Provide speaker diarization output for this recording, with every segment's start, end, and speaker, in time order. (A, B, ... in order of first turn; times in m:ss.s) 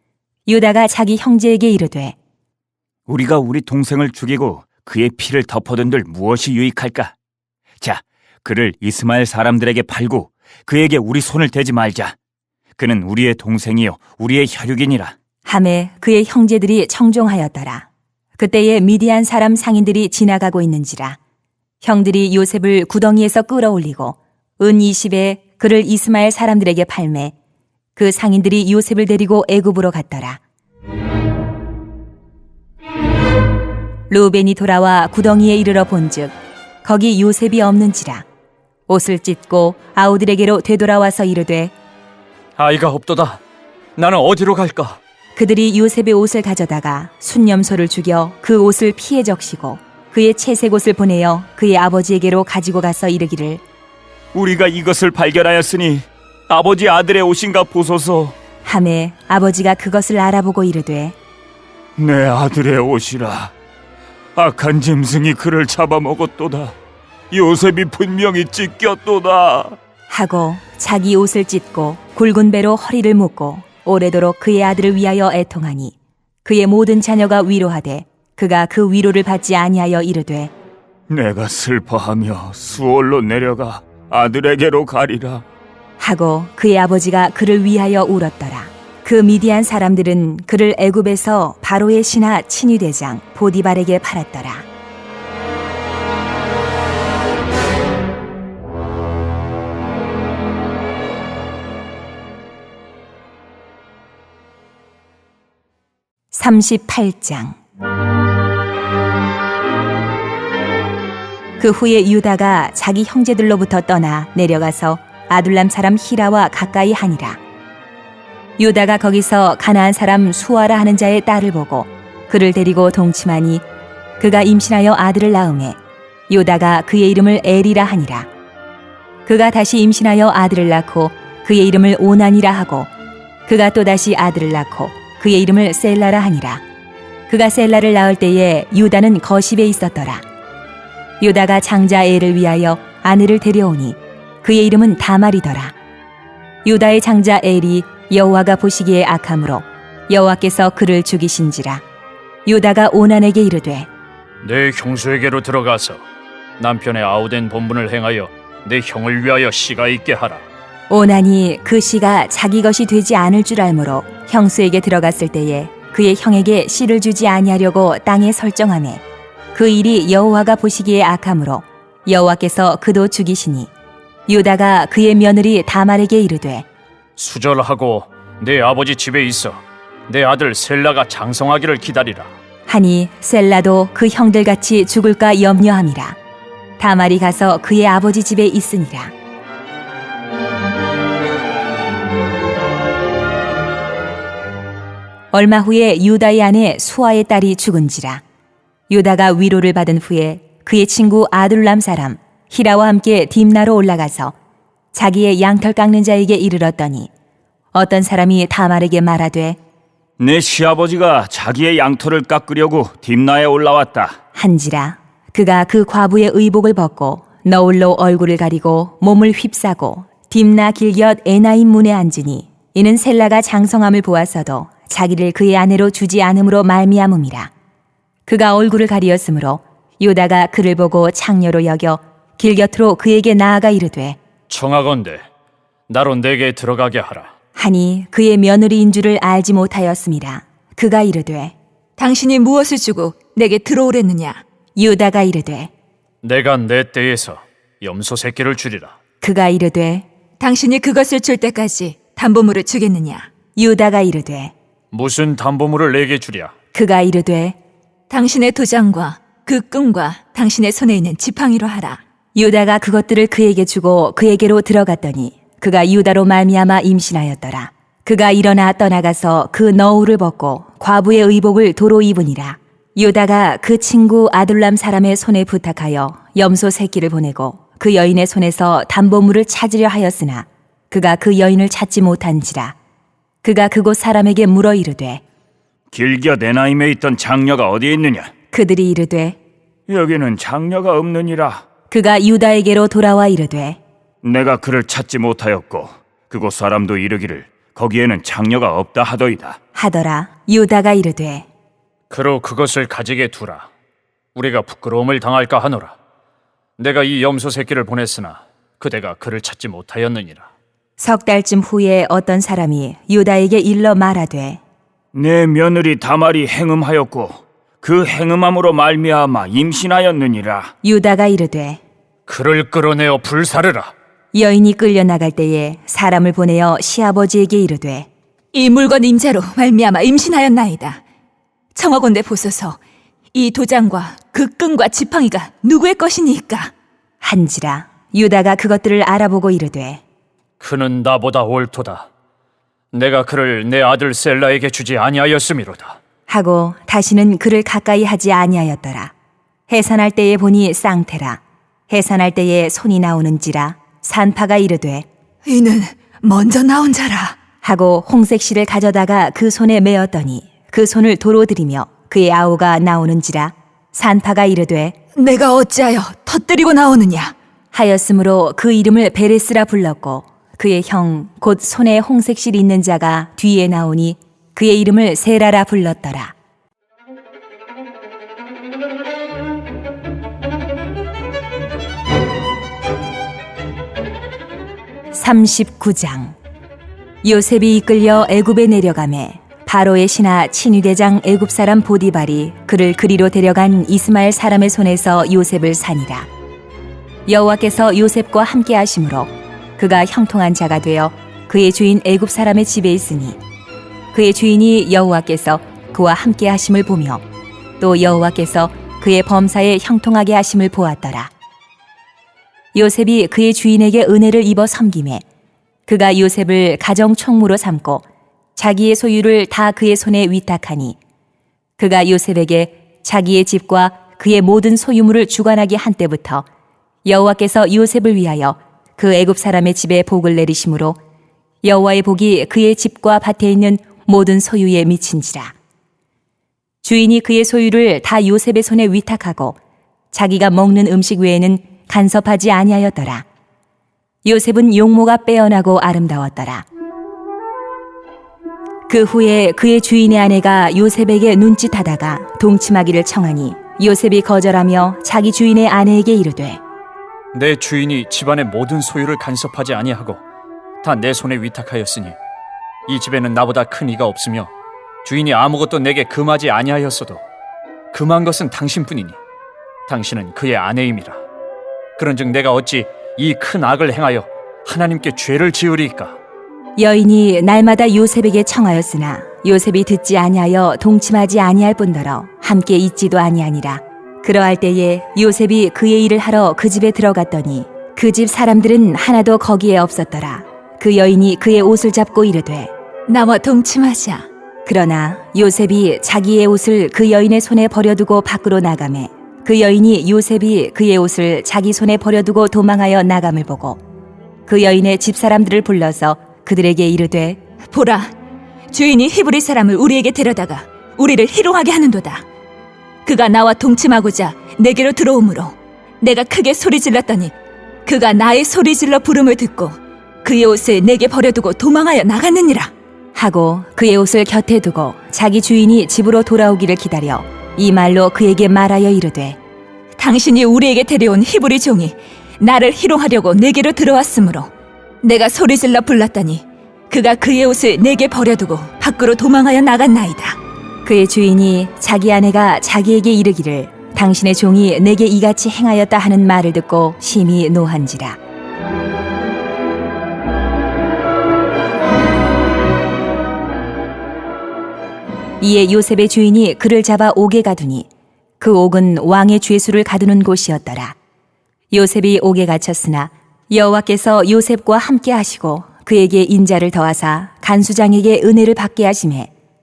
0:00.5-0:02.2 A
0:03.1-0:07.1 B
0:07.8-0:12.1 B
0:12.8-0:15.1 B
0:15.4-0:21.2 A
0:21.8-0:27.3 A
0:28.0-0:30.4 A
0:34.1-0:38.2 A
0:38.9-0:41.7 A
0:42.6-0:43.4 C
0:44.0-0:45.0 C
0:45.4-0:53.6 A
0:54.3-0:58.4 B
0:58.6-1:01.2 A
1:02.0-1:03.5 B
1:04.4-1:06.8 B
1:07.3-1:09.8 B
1:10.1-1:20.5 A
1:21.1-1:25.4 B
1:26.0-1:34.6 A
1:46.3-1:47.6 A
1:51.6-1:57.4 A
1:58.6-2:03.6 A
2:04.2-2:05.8 A
2:06.3-2:08.3 A
2:09.2-2:12.9 A
2:13.5-2:16.6 A
2:17.3-2:20.2 A
2:21.2-2:25.7 A
2:26.6-2:31.8 A
2:32.4-2:33.9 A
2:34.4-2:36.0 C
2:36.6-2:40.4 C
2:40.9-2:49.0 A
2:49.5-2:53.7 A
2:54.3-2:56.6 A
2:57.2-3:02.3 C
3:02.7-3:06.2 A
3:06.8-3:09.1 A
3:15.3-3:18.2 A
3:18.9-3:24.4 A
3:24.9-3:27.1 A
3:27.7-3:29.6 A
3:30.2-3:34.2 B
3:34.4-3:47.5 A
3:48.2-3:54.2 A
3:54.5-3:55.3 C
3:55.9-3:57.3 C
3:57.6-4:01.6 A
4:02.0-4:04.4 D
4:04.8-4:05.7 A
4:06.2-4:09.0 C
4:09.2-4:10.1 A
4:10.4-4:13.3 D
4:13.6-4:14.5 A
4:14.9-4:16.5 C
4:16.7-4:17.6 A
4:18.1-4:22.0 D
4:22.4-4:42.8 A
4:43.4-4:45.2 A
4:45.9-4:48.3 B
4:48.5-4:49.4 A
4:49.9-4:51.6 B
4:51.9-4:53.8 A
4:54.2-4:59.6 B
4:59.8-5:01.5 A
5:02.1-5:03.7 C
5:04.4-5:06.0 C
5:06.8-5:10.5 C
5:11.0-5:14.6 A
5:15.1-5:20.7 B
5:20.8-5:21.8 A
5:22.3-5:23.9 C
5:24.3-5:28.1 A
5:28.5-5:31.0 D
5:31.8-5:32.8 D
5:33.3-5:36.7 D
5:37.2-5:40.0 A
5:40.6-5:42.1 C
5:42.9-5:46.0 C
5:46.3-5:49.1 A
5:49.7-5:55.1 A
5:55.5-5:57.4 D
5:57.6-6:05.0 A
6:05.2-6:07.3 D
6:07.7-6:16.4 A
6:25.1-6:26.4 A
6:27.2-6:36.3 A
6:37.3-6:43.4 A
6:44.1-6:47.2 A
6:47.8-6:51.3 A
6:52.7-6:55.2 A
6:55.9-6:58.0 A
6:58.6-7:01.0 A
7:01.8-7:06.4 A
7:07.0-7:11.0 A
7:11.6-7:15.6 A
7:16.8-7:19.6 A
7:20.1-7:23.2 A
7:24.2-7:26.6 A
7:28.9-7:36.6 A
7:37.3-7:40.2 C
7:40.8-7:42.2 C
7:42.9-7:44.5 C
7:45.0-7:47.2 C
7:47.9-7:49.2 C
7:49.9-7:51.2 C
7:52.0-7:56.2 C
7:56.8-8:12.7 A
8:13.1-8:14.2 D
8:14.7-8:23.8 A
8:24.5-8:27.4 A
8:27.6-8:28.1 D
8:28.7-8:32.2 D
8:33.0-8:37.3 D
8:37.9-8:42.7 D
8:43.2-8:49.4 A
8:50.0-8:54.5 D
8:55.0-9:00.4 D
9:00.8-9:08.2 A
9:15.4-9:17.9 A
9:18.4-9:21.0 A
9:21.7-9:29.3 A